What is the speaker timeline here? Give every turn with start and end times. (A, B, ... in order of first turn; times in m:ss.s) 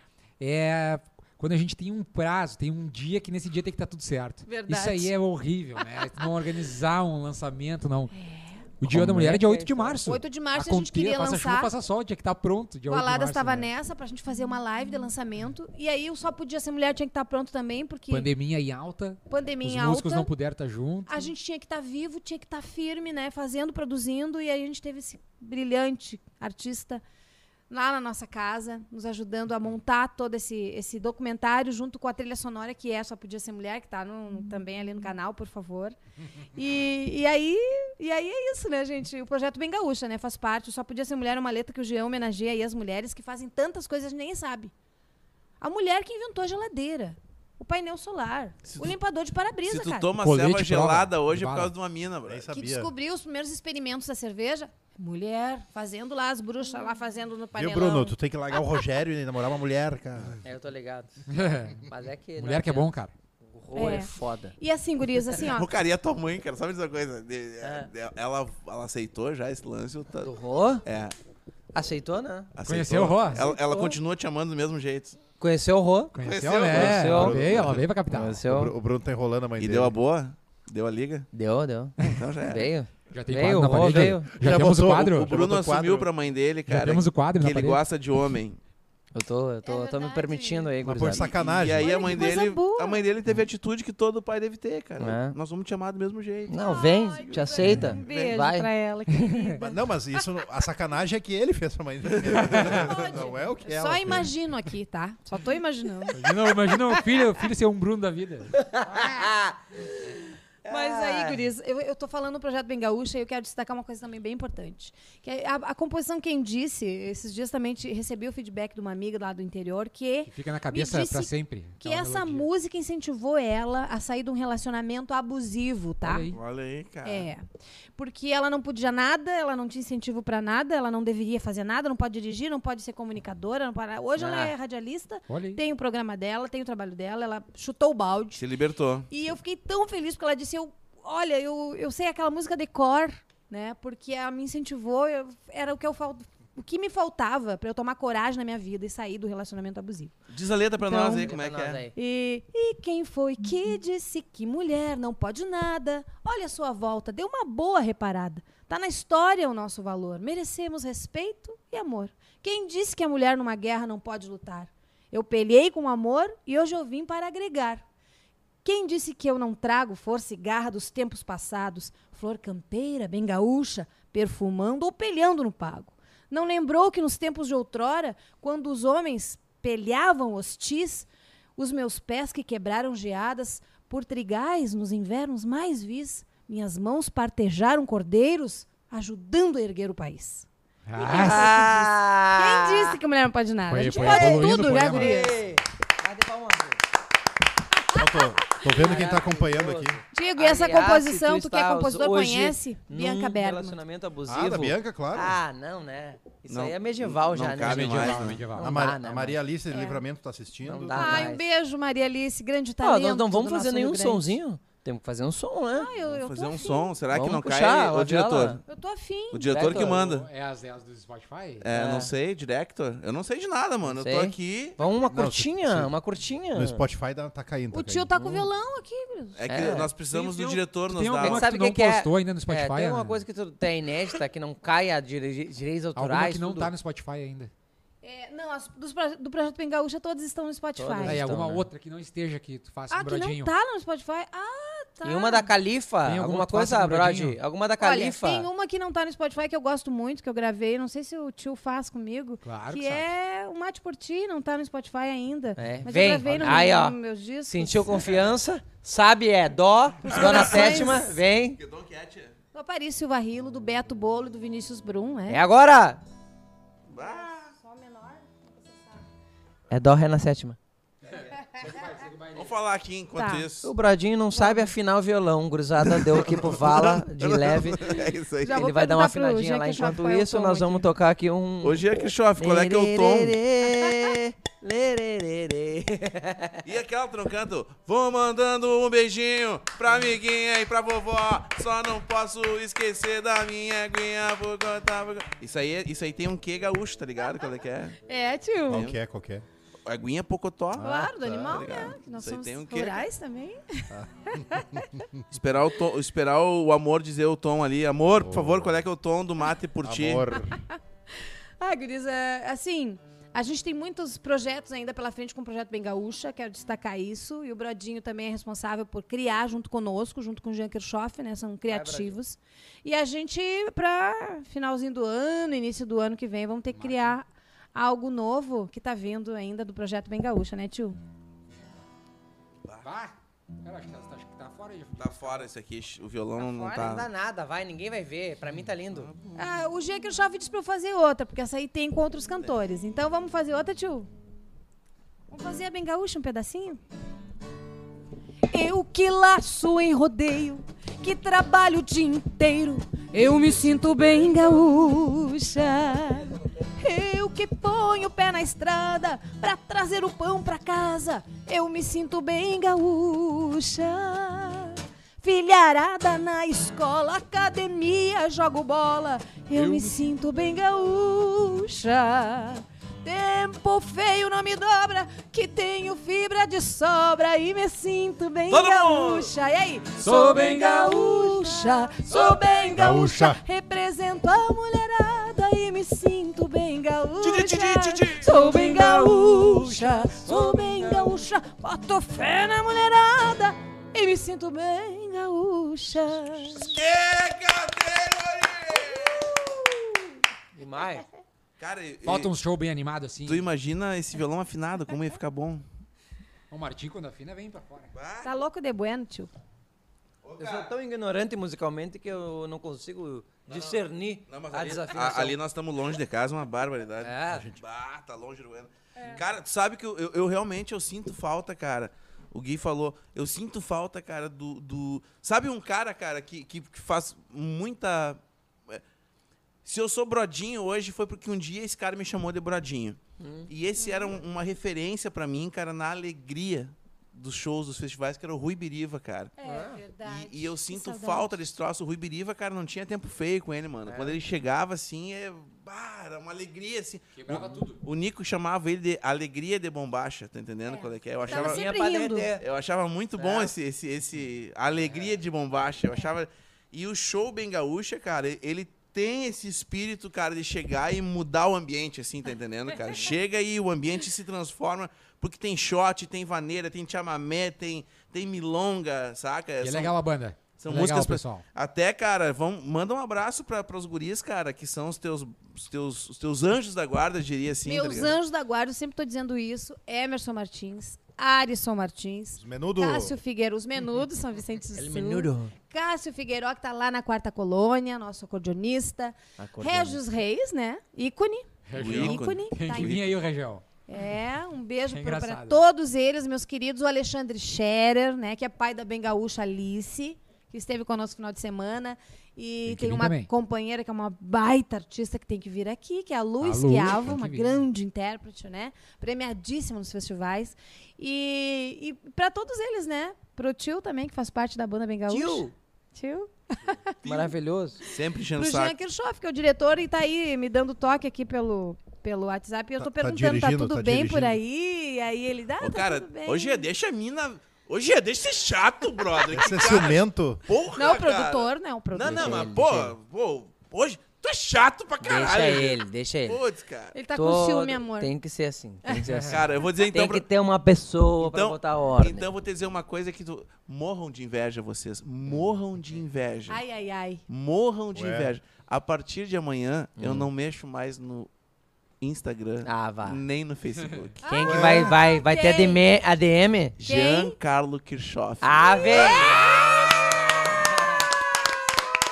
0:00.4-0:08.1 A
0:04.4-0:05.1 B
0:08.1-0:08.7 B
0:08.8-0:13.7 A
0:08.9-0:09.2 C
0:09.1-0:10.0 D
0:10.0-0:11.7 B
0:12.9-0:18.3 B
0:18.1-0:21.3 A
0:19.3-0:20.3 B
0:21.1-0:27.0 B
0:27.7-0:36.0 B
0:36.5-0:44.7 B
0:45.6-0:50.1 B
0:48.6-0:49.0 E
0:49.6-0:52.4 E
0:50.2-0:51.7 A
0:52.2-0:52.9 C
0:52.5-0:58.8 B
0:57.6-1:00.4 C
1:00.4-1:01.2 D
1:01.3-1:01.8 A
1:01.8-1:02.9 D
1:02.4-1:03.1 A
1:03.4-1:04.5 D
1:03.7-1:05.7 B
1:05.4-1:10.3 E
1:07.6-1:07.9 D
1:10.2-1:10.8 D
1:10.8-1:11.1 E
1:11.7-1:12.5 D
1:12.5-1:15.2 E
1:12.6-1:13.5 A
1:13.3-1:14.0 B
1:15.4-1:16.1 D
1:16.1-1:18.4 A
1:16.2-1:17.0 E
1:16.7-1:17.8 C
1:16.7-1:17.4 D
1:18.1-1:18.7 D
1:18.4-1:19.9 C
1:19.6-1:21.3 E
1:21.3-1:24.3 D
1:22.0-1:22.7 E
1:23.1-1:25.3 A
1:23.8-1:26.1 C
1:25.0-1:28.6 E
1:26.7-1:27.8 A
1:29.1-1:31.4 D
1:29.6-1:30.8 B
1:30.8-1:31.9 C
1:31.4-1:38.4 E
1:31.8-1:33.0 B
1:35.0-1:35.4 D
1:36.5-1:38.7 D
1:36.6-1:39.8 B
1:39.6-1:44.3 C
1:42.4-1:42.7 A
1:42.5-1:47.0 B
1:46.1-1:48.6 A
1:48.6-1:51.4 D
1:50.6-2:06.3 B
2:00.2-2:02.5 A
2:06.0-2:06.4 A
2:06.3-2:07.3 E
2:07.0-2:07.4 B
2:08.0-2:18.4 B
2:14.2-2:14.5 D
2:15.3-2:15.6 A
2:18.4-2:19.1 E
2:19.1-2:30.1 B
2:30.3-2:31.8 E
2:30.9-2:31.3 B
2:31.2-2:31.9 D
2:31.9-2:47.8 B
2:48.6-3:10.4 B
3:10.8-3:11.5 A
3:11.0-3:15.4 B
3:11.0-3:13.0 D
3:13.7-3:15.2 A
3:13.8-3:16.8 D
3:17.8-3:18.8 B
3:17.9-3:20.0 C
3:18.7-3:29.4 D
3:20.1-3:23.8 B
3:24.3-3:25.4 C
3:26.5-3:28.4 E
3:27.6-3:28.8 A
3:28.6-3:31.3 C
3:29.7-3:30.0 B
3:30.6-3:31.4 D
3:30.9-3:34.4 B
3:32.8-3:35.9 D
3:35.7-3:36.9 B
3:36.0-3:38.6 E
3:37.1-3:38.6 D
3:38.7-3:39.6 B
3:39.3-3:40.3 E
3:39.4-3:40.0 D
3:39.6-3:41.7 A
3:41.6-3:44.8 E
3:41.7-3:42.1 D
3:43.8-3:46.8 D
3:45.1-3:45.9 C
3:46.5-3:48.1 C
3:47.7-3:49.7 B
3:49.4-3:51.5 E
3:49.5-3:49.9 D
3:50.1-3:53.2 A
3:51.2-3:56.7 D
3:56.0-3:57.5 A
3:58.0-4:01.2 B
4:00.8-4:01.7 D
4:01.0-4:03.5 A
4:02.9-4:05.5 B
4:05.0-4:08.5 D
4:06.0-4:07.4 A
4:07.8-4:18.1 B
4:12.4-4:13.1 A
4:15.6-4:21.6 D
4:15.9-4:16.7 A
4:20.0-4:21.2 B
4:20.2-4:20.8 E
4:21.6-4:22.3 E
4:22.5-4:25.4 B
4:25.3-4:26.0 D
4:26.9-4:27.5 E
4:27.0-4:29.0 B
4:29.7-4:30.6 D
4:31.1-4:32.5 A
4:32.3-4:33.7 E
4:33.2-4:33.4 B
4:33.6-4:38.0 D
4:34.4-4:34.7 B
4:35.8-4:38.6 E
4:38.4-4:40.8 B
4:38.5-4:46.6 D
4:41.6-4:43.4 E
4:46.6-4:58.0 E
4:58.0-4:58.9 B
4:58.7-4:59.4 C
4:58.7-4:58.9 E
4:59.8-5:03.0 E
5:00.8-5:01.1 C
5:00.8-5:04.8 B
5:03.9-5:04.8 C
5:05.3-5:10.4 E
5:08.2-5:08.8 C
5:09.8-5:10.6 C
5:10.7-5:31.0 B
5:21.7-5:22.2 D
5:26.7-5:27.2 A
5:32.8-5:35.5 A
5:35.0-5:37.1 E
5:36.4-5:39.1 D
5:38.9-5:39.4 E
5:39.4-5:44.1 B
5:45.3-5:46.8 B
5:48.5-6:36.8 B
6:09.5-6:10.0 A
6:18.5-6:19.3 E
6:20.0-6:21.8 A
6:22.7-6:23.4 C
6:27.2-6:29.6 E
6:30.0-6:30.6 A
6:36.6-6:39.4 E
6:39.2-6:39.6 B
6:40.5-6:41.0 D
6:41.6-6:42.3 E
6:42.0-6:43.5 A
6:43.2-6:45.6 E
6:46.5-6:47.9 A
6:47.9-6:48.4 E
6:48.2-6:49.3 B
6:50.2-6:50.7 E
6:50.4-6:55.4 D
6:53.4-7:08.8 E
6:57.0-6:57.5 D
6:57.3-6:57.6 C
7:09.6-7:19.3 E
7:13.2-7:13.5 D
7:13.8-7:14.2 B
7:19.4-7:21.4 B
7:19.4-7:19.8 D
7:20.0-7:31.7 E
7:23.8-7:24.2 D
7:27.2-7:27.8 A
7:30.7-7:32.3 B
7:31.3-7:32.4 D
7:32.4-7:49.9 E
7:33.2-7:33.5 D
7:49.6-7:51.4 A
7:50.6-7:58.1 E
7:57.6-8:13.1 B
8:02.3-8:03.2 C
8:04.8-8:05.5 D
8:09.4-8:10.0 D
8:11.6-8:13.6 A
8:11.8-8:13.1 E
8:13.9-8:37.3 B
8:14.9-8:15.6 A
8:22.6-8:23.3 A
8:26.4-8:27.6 A
8:35.1-8:35.5 D
8:37.0-8:37.8 D
8:37.8-8:38.7 E
8:38.4-8:46.6 B
8:42.8-8:44.4 C
8:45.6-8:57.0 E
8:49.3-8:50.4 C
8:50.8-8:52.5 B
8:52.0-8:52.9 D
8:55.0-8:56.4 D
8:56.9-8:58.1 B
8:57.1-9:02.3 D
8:58.8-8:59.1 B
8:59.3-9:00.2 E
9:01.2-9:06.6 E
9:06.5-9:07.2 B
9:07.3-9:11.3 E
9:07.9-9:08.3 C
9:10.0-9:10.3 D
9:12.0-9:14.2 E
9:12.6-9:13.2 D
9:14.2-9:15.8 B
9:14.3-9:16.8 D
9:14.4-9:14.9 C
9:16.8-9:17.3 B
9:16.8-9:19.4 E
9:18.4-9:21.0 D
9:18.7-9:19.6 B